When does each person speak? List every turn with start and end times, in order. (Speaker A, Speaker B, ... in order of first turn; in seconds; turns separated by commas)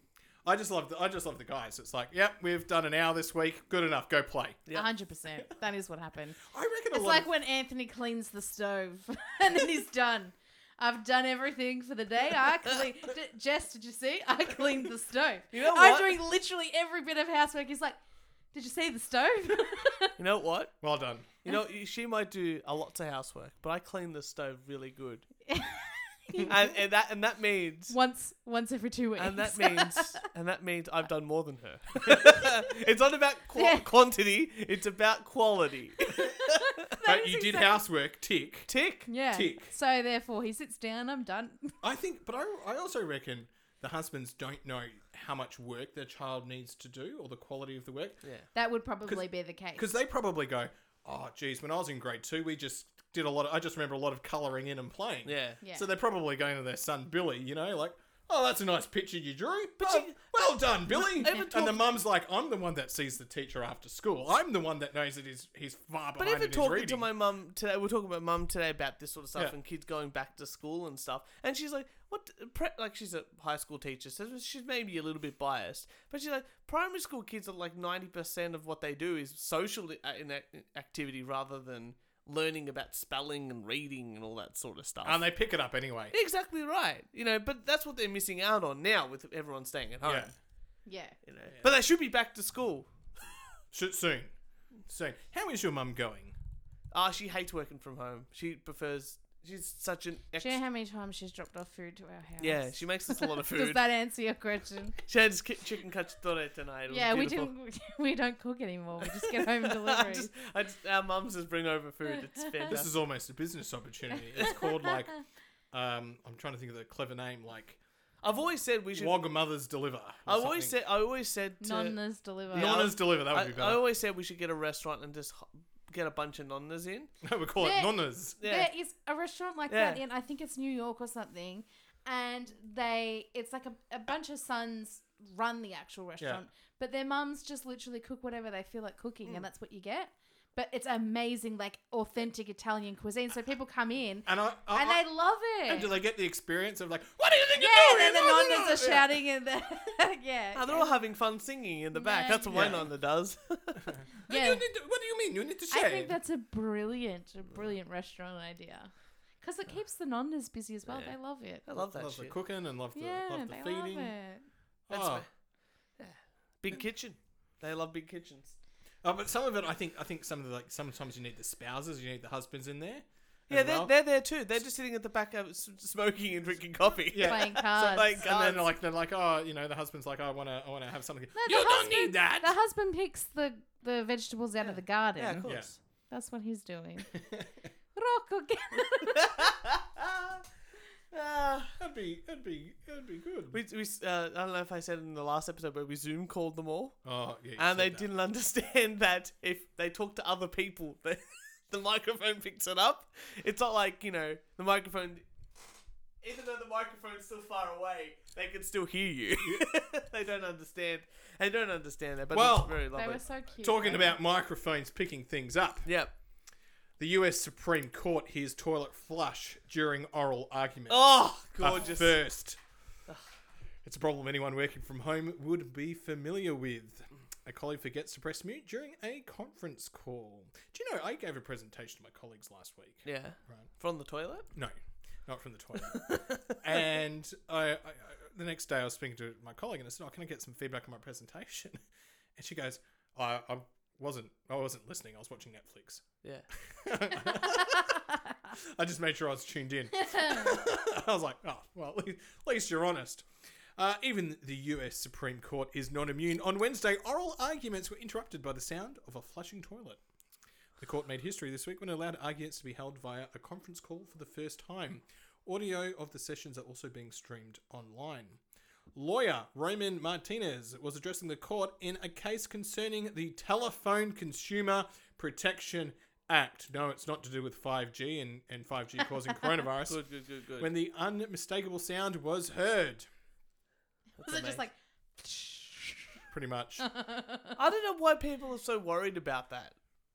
Speaker A: 0.5-4.6, Speaker B: 4.7-6.4, Speaker A: 6.5-7.3, Speaker B: 6.9-18.0, Speaker C: 15.5-16.2, Speaker B: 18.5-20.1, Speaker C: 20.2-20.8, Speaker A: 20.8-21.3, Speaker C: 21.4-25.3, Speaker B: 25.5-26.7, Speaker C: 26.5-27.9, Speaker B: 27.9-30.1, Speaker C: 29.2-36.5, Speaker B: 33.6-33.9, Speaker B: 36.9-37.8, Speaker A: 37.0-38.7, Speaker C: 38.7-39.1, Speaker B: 39.1-41.8, Speaker A: 39.3-39.7, Speaker A: 41.8-48.2, Speaker C: 48.2-48.5, Speaker B: 48.5-49.9, Speaker A: 49.1-67.1, Speaker C: 55.3-55.6, Speaker B: 55.6-55.9, Speaker C: 59.8-61.9, Speaker C: 66.2-85.2, Speaker A: 85.0-86.1, Speaker C: 86.1-90.3, Speaker A: 90.0-90.3, Speaker B: 90.9-91.2, Speaker C: 91.3-92.9, Speaker A: 91.5-91.8, Speaker A: 93.7-94.3, Speaker A: 94.9-96.4, Speaker C: 96.9-100.6, Speaker B: 100.4-105.0, Speaker C: 102.4-103.8, Speaker C: 105.1-107.5, Speaker B: 106.9-110.3, Speaker C: 109.0-112.9, Speaker A: 112.7-115.2, Speaker B: 114.4-114.9, Speaker A: 115.7-117.8, Speaker C: 118.2-119.2, Speaker A: 119.0-120.8, Speaker C: 120.3-127.1, Speaker B: 121.6-122.9, Speaker A: 122.5-123.8, Speaker A: 127.2-128.4, Speaker B: 127.6-145.9, Speaker C: 128.4-128.7, Speaker C: 129.7-130.0, Speaker A: 136.2-136.4, Speaker A: 144.3-145.1, Speaker A: 145.7-149.1, Speaker B: 147.6-150.9, Speaker C: 150.6-153.9, Speaker B: 151.9-152.8, Speaker A: 152.5-152.9, Speaker A: 154.0-156.2, Speaker B: 154.3-154.6, Speaker B: 155.7-161.7, Speaker C: 160.9-162.3, Speaker A: 161.8-164.1, Speaker B: 162.9-164.4, Speaker A: 164.9-165.3, Speaker C: 164.9-165.3, Speaker C: 166.0-168.6, Speaker A: 169.0-173.9, Speaker C: 173.5-178.7, Speaker A: 177.1-182.6, Speaker B: 177.2-178.2, Speaker B: 181.4-185.5, Speaker C: 185.2-185.8, Speaker A: 185.4-185.7, Speaker B: 186.1-187.1, Speaker A: 187.1-187.7, Speaker B: 187.9-189.3, Speaker C: 189.3-190.4, Speaker C: 191.1-191.7, Speaker A: 191.8-193.6, Speaker C: 193.5-197.0, Speaker A: 197.0-198.1, Speaker C: 197.6-205.2, Speaker C: 206.2-213.2, Speaker A: 212.3-212.9, Speaker B: 212.9-214.2, Speaker A: 213.6-215.9, Speaker C: 215.9-216.1, Speaker A: 217.0-222.6, Speaker C: 220.9-222.2, Speaker A: 223.8-233.7, Speaker C: 233.1-234.5, Speaker A: 234.5-241.8, Speaker C: 235.9-236.6, Speaker A: 242.4-246.1, Speaker A: 246.6-248.0, Speaker B: 247.4-247.8, Speaker A: 248.6-253.3, Speaker B: 249.9-250.6, Speaker A: 253.8-260.0, Speaker A: 260.8-268.4, Speaker A: 268.9-280.0, Speaker C: 279.9-280.7, Speaker A: 280.6-283.1, Speaker C: 284.2-284.6, Speaker B: 284.2-286.2, Speaker A: 286.3-286.9, Speaker B: 286.8-287.6, Speaker C: 287.6-289.8